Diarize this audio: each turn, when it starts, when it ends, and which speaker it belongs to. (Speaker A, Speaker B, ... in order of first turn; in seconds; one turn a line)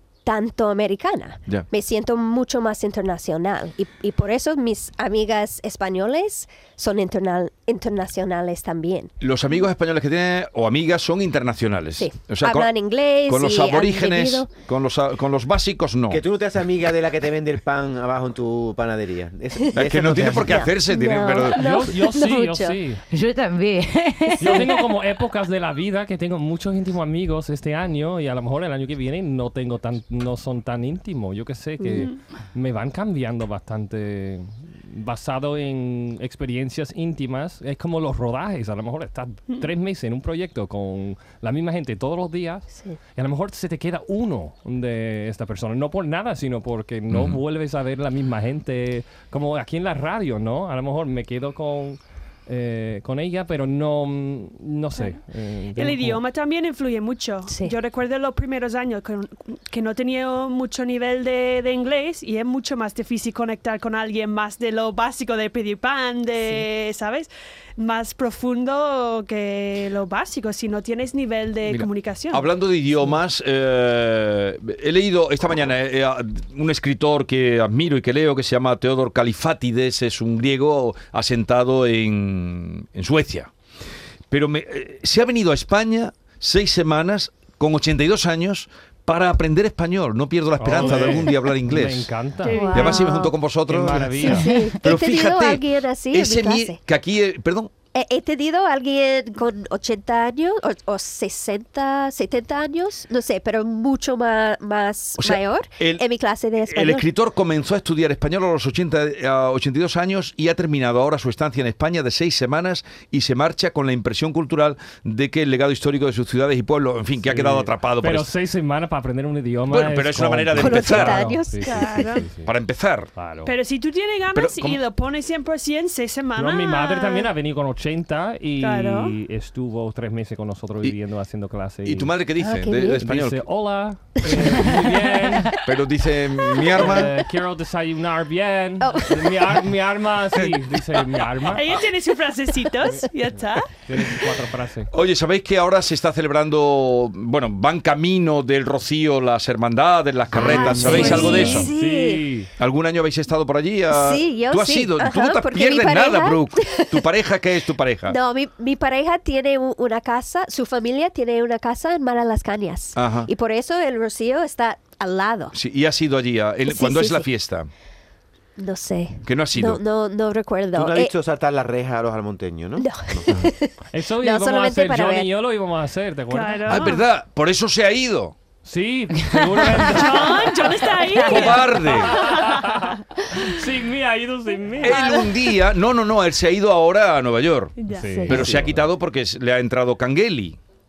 Speaker A: 0.2-9.7
Speaker B: 9.2-16.2
Speaker A: 12.0-14.5
Speaker C: 16.1-20.8
Speaker B: 19.7-21.6
Speaker A: 20.4-22.8
Speaker D: 21.6-23.0
Speaker E: 23.1-24.8
Speaker D: 24.4-56.2
Speaker A: 31.8-32.1
Speaker A: 42.7-43.0
Speaker B: 47.1-47.4
Speaker F: 55.8-72.5
Speaker A: 57.5-57.8
Speaker B: 71.7-83.5
Speaker B: 84.3-92.1
Speaker D: 90.6-92.7
Speaker A: 90.9-91.1
Speaker F: 92.4-93.1
Speaker A: 92.5-93.4
Speaker B: 92.7-97.7
Speaker D: 93.7-94.5
Speaker A: 94.2-96.8
Speaker E: 94.4-94.8
Speaker A: 97.9-107.1
Speaker B: 105.2-106.0
Speaker B: 106.6-118.3
Speaker D: 117.2-122.5
Speaker B: 119.7-121.4
Speaker A: 120.5-122.2
Speaker F: 121.6-122.2
Speaker B: 122.4-123.1
Speaker D: 123.2-123.5
Speaker F: 123.5-127.3
Speaker B: 124.3-124.8
Speaker D: 126.4-132.1
Speaker F: 128.6-129.1
Speaker B: 131.8-133.4
Speaker A: 132.4-133.0
Speaker D: 133.0-135.5
Speaker B: 134.2-134.7
Speaker B: 135.6-137.1
Speaker D: 136.7-141.7
Speaker A: 138.8-139.5
Speaker F: 141.5-143.7
Speaker D: 143.8-144.9
Speaker B: 144.9-151.7
Speaker D: 150.3-152.5
Speaker A: 150.3-152.3
Speaker F: 150.9-151.4
Speaker B: 152.6-158.2
Speaker A: 153.9-157.1
Speaker A: 158.1-165.6
Speaker B: 163.0-163.3
Speaker B: 165.5-167.7
Speaker A: 166.7-167.3
Speaker A: 168.6-171.1
Speaker B: 169.2-169.8
Speaker C: 170.7-173.3
Speaker A: 172.8-175.3
Speaker D: 173.9-176.8
Speaker F: 176.3-177.0
Speaker B: 176.7-178.3
Speaker D: 178.7-185.0
Speaker E: 179.1-181.3
Speaker F: 179.9-182.9
Speaker B: 181.2-182.2
Speaker B: 184.8-187.8
Speaker F: 187.8-188.2
Speaker D: 187.9-188.9
Speaker A: 188.2-188.5
Speaker B: 188.3-190.6
Speaker C: 188.4-188.6